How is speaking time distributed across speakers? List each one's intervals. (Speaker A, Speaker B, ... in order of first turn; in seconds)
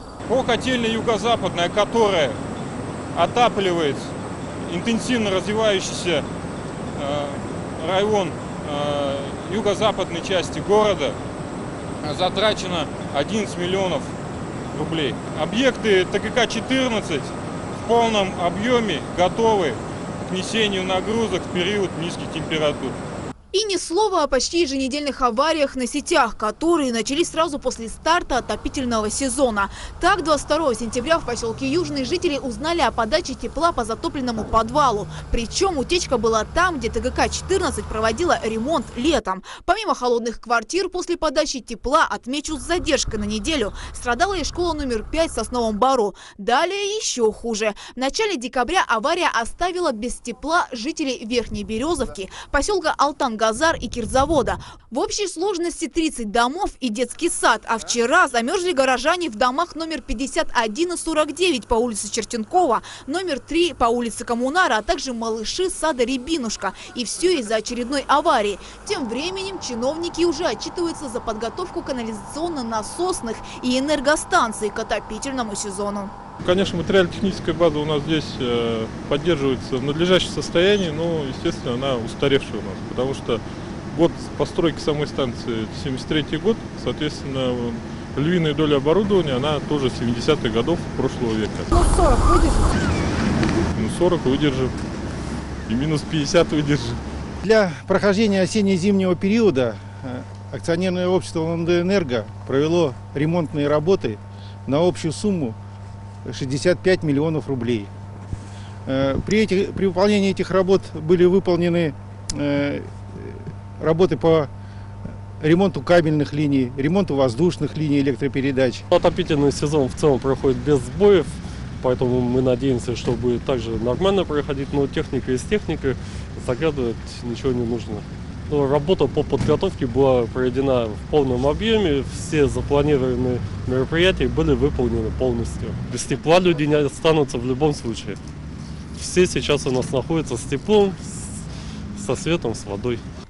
Speaker A: 0.3-2.4, 3.1-4.1, 4.6-6.2, 7.0-11.2, 12.0-14.1, 14.7-23.0
Speaker B: 23.5-76.1, 91.8-92.7
Speaker C: 76.4-91.7, 93.7-94.7, 95.7-97.0
Speaker D: 97.4-105.5, 106.2-107.9, 108.8-114.5, 115.4-118.8
Speaker E: 118.9-138.2, 138.9-141.3, 141.9-143.0